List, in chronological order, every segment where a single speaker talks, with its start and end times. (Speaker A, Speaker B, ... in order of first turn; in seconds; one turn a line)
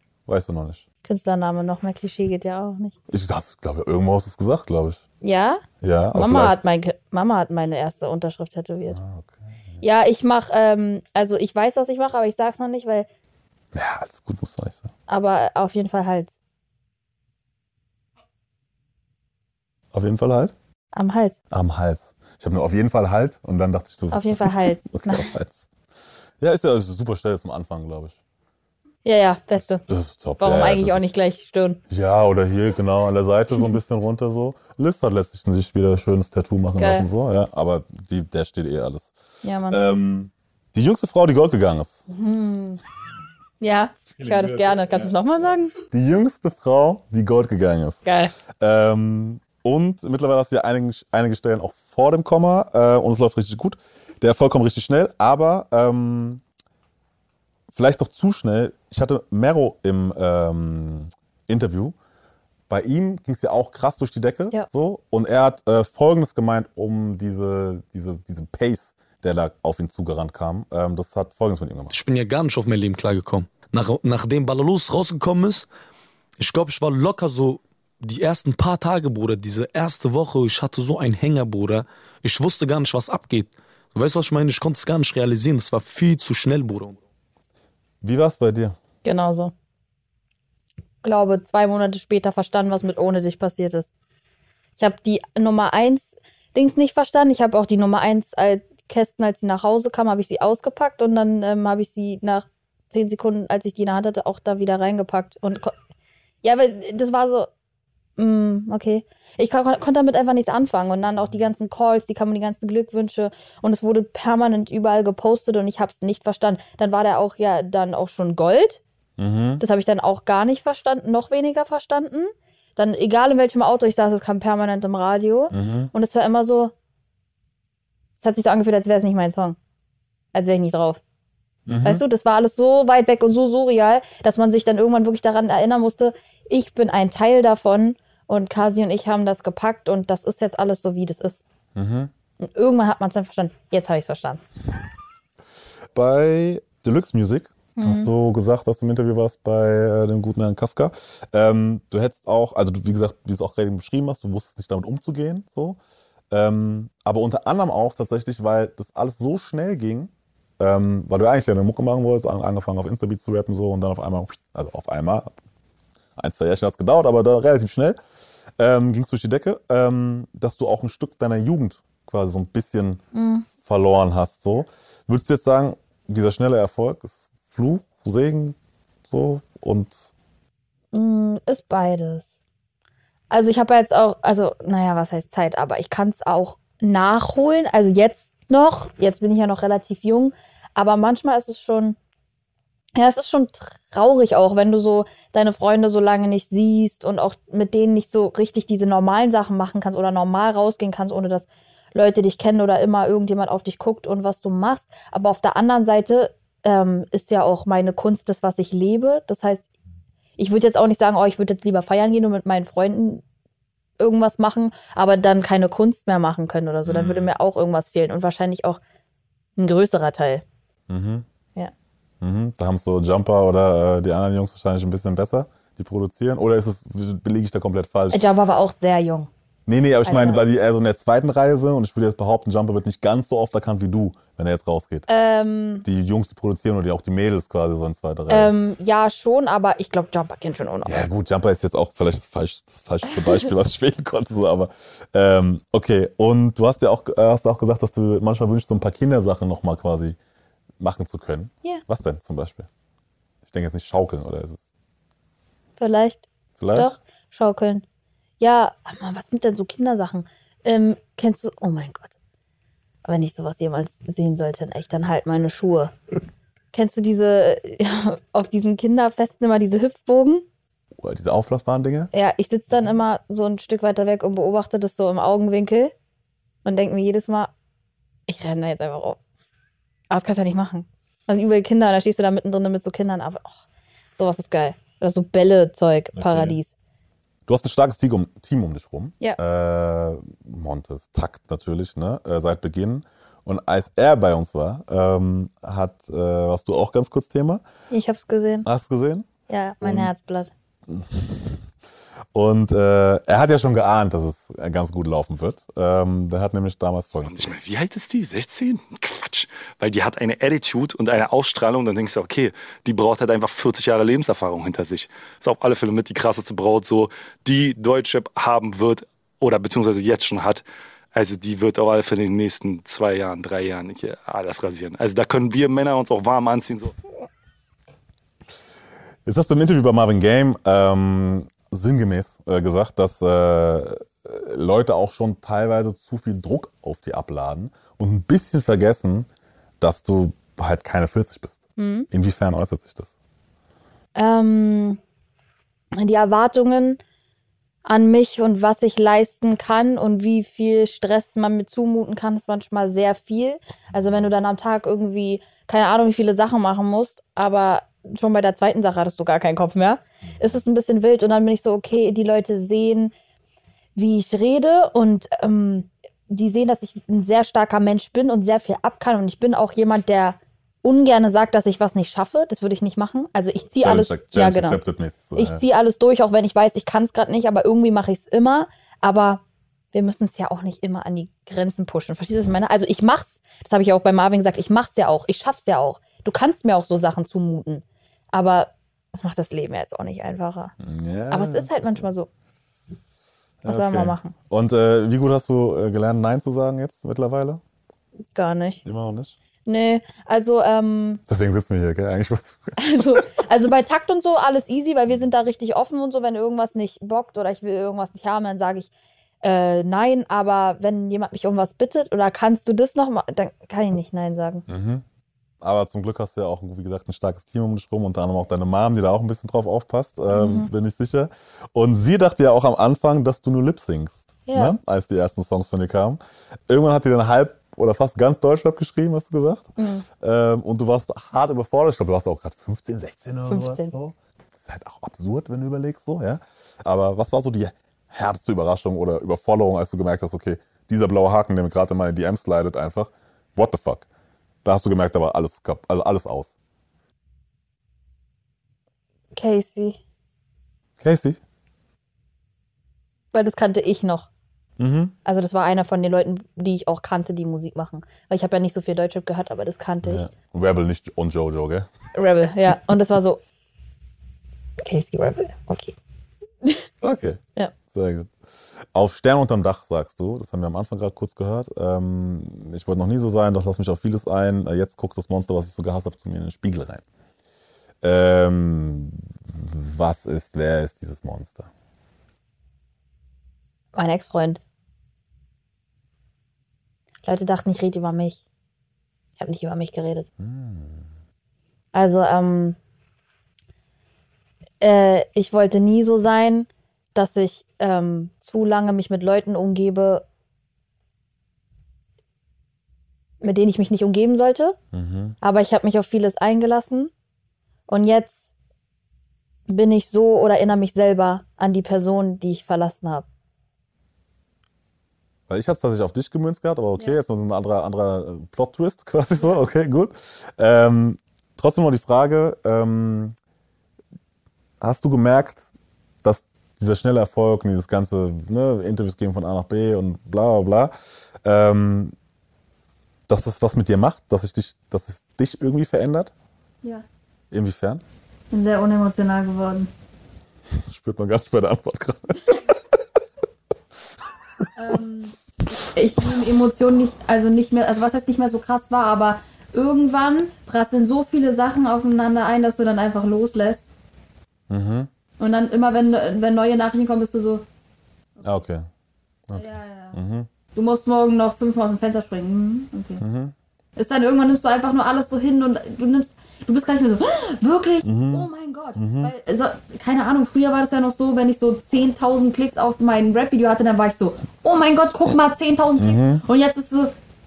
Speaker A: 0.3-0.8
Speaker B: 1.1-3.0
Speaker A: 3.1-5.0
Speaker B: 5.2-9.0
Speaker A: 5.8-6.6
Speaker A: 8.9-9.8
Speaker B: 9.8-13.1
Speaker A: 13.7-14.9
Speaker B: 15.1-16.4
Speaker A: 19.9-20.5
Speaker B: 20.9-21.4
Speaker A: 21.5-25.6
Speaker B: 24.1-25.3
Speaker A: 26.4-28.2
Speaker B: 29.1-29.8
Speaker A: 29.9-31.1
Speaker B: 30.4-31.8
Speaker A: 31.9-39.1
Speaker B: 36.8-37.1
Speaker B: 39.4-39.8
Speaker A: 39.7-42.0
Speaker B: 42.1-42.8
Speaker B: 43.6-45.7
Speaker A: 44.2-45.1
Speaker A: 45.8-56.4
Speaker B: 48.1-48.3
Speaker A: 57.7-62.0
Speaker A: 62.7-72.0
Speaker C: 71.9-75.7
Speaker C: 76.4-87.0
Speaker A: 88.0-88.8
Speaker B: 89.0-89.5
Speaker B: 91.0-93.9
Speaker B: 94.8-105.8
Speaker B: 106.4-107.5
Speaker B: 108.2-118.8
Speaker A: 119.2-119.6
Speaker B: 119.6-126.7
Speaker A: 125.5-125.9
Speaker B: 128.2-129.6
Speaker B: 130.3-131.0
Speaker A: 131.7-132.0
Speaker B: 131.8-141.4
Speaker A: 141.8-142.1
Speaker B: 142.4-144.4
Speaker A: 145.9-155.8
Speaker B: 147.8-148.1
Speaker A: 156.3-165.3
Speaker A: 166.2-168.0
Speaker A: 168.6-173.0
Speaker B: 173.1-173.5
Speaker A: 173.6-178.6
Speaker A: 179.1-180.1
Speaker B: 180.9-182.3
Speaker B: 183.3-192.0
Speaker B: 193.0-209.7
Speaker B: 210.4-213.2
Speaker B: 214.0-218.8
Speaker A: 216.8-217.3
Speaker B: 219.6-220.4
Speaker A: 220.9-221.3
Speaker A: 222.2-228.2
Speaker B: 228.1-229.3
Speaker A: 229.7-235.1
Speaker B: 230.1-230.4
Speaker B: 235.1-235.9
Speaker A: 235.8-238.6
Speaker B: 238.3-241.1
Speaker A: 240.8-250.2
Speaker A: 250.8-252.7
Speaker A: 253.4-254.7
Speaker B: 255.8-257.8
Speaker A: 256.6-256.9
Speaker B: 258.4-262.1
Speaker B: 263.1-265.9
Speaker B: 266.7-270.4
Speaker A: 271.0-272.1
Speaker B: 272.1-275.9
Speaker B: 276.6-277.5
Speaker B: 278.3-279.2
Speaker B: 280.1-283.6
Speaker B: 284.1-286.7
Speaker A: 286.1-286.6
Speaker A: 287.5-297.6
Speaker B: 297.9-298.7
Speaker A: 298.6-299.3
Speaker B: 299.5-300.5
Speaker A: 299.8-300.1
Speaker A: 300.9-301.6
Speaker A: 302.3-307.6
Speaker D: 307.2-320.6
Speaker D: 321.1-327.0
Speaker A: 329.3-339.3
Speaker A: 339.8-343.1
Speaker B: 341.8-342.1
Speaker B: 344.1-345.0
Speaker B: 345.9-347.0
Speaker B: 347.9-363.1
Speaker B: 363.9-374.8
Speaker A: 373.8-375.6
Speaker B: 375.4-379.4
Speaker B: 379.9-390.7
Speaker A: 390.8-391.7
Speaker B: 391.3-392.3
Speaker A: 393.6-397.6
Speaker B: 393.7-394.4
Speaker B: 398.4-398.8
Speaker A: 398.9-399.4
Speaker B: 399.7-401.2
Speaker A: 401.3-403.2
Speaker B: 402.8-408.9
Speaker B: 409.4-414.6
Speaker A: 414.7-415.0
Speaker A: 415.6-444.1
Speaker B: 420.3-420.7
Speaker B: 424.5-424.8
Speaker B: 429.8-430.1
Speaker B: 433.5-433.9
Speaker A: 444.6-446.5
Speaker B: 449.4-450.0
Speaker A: 451.0-451.4
Speaker B: 453.3-454.3
Speaker A: 454.8-455.1
Speaker B: 455.2-460.3
Speaker A: 460.0-461.9
Speaker B: 462.1-463.4
Speaker B: 464.8-466.0
Speaker A: 467.0-468.4
Speaker A: 468.9-477.0
Speaker A: 478.0-481.7
Speaker B: 483.9-484.6
Speaker B: 487.2-488.4
Speaker B: 489.4-490.3
Speaker A: 490.4-491.1
Speaker B: 491.9-492.8
Speaker B: 494.8-500.2
Speaker B: 503.4-504.8
Speaker A: 504.9-505.4
Speaker B: 505.4-507.1
Speaker B: 507.9-508.5
Speaker B: 509.7-513.3
Speaker A: 515.5-523.4
Speaker A: 524.8-525.6
Speaker A: 526.2-532.1
Speaker A: 533.3-536.3
Speaker A: 537.5-538.0
Speaker B: 538.5-539.9
Speaker A: 540.7-543.0
Speaker B: 544.8-553.9
Speaker A: 554.7-555.1
Speaker B: 555.4-557.6
Speaker A: 558.4-558.9
Speaker A: 559.5-560.5
Speaker B: 559.5-560.2
Speaker B: 560.7-563.2
Speaker A: 563.2-563.5
Speaker B: 564.0-577.1
Speaker A: 568.0-569.3
Speaker A: 576.0-576.4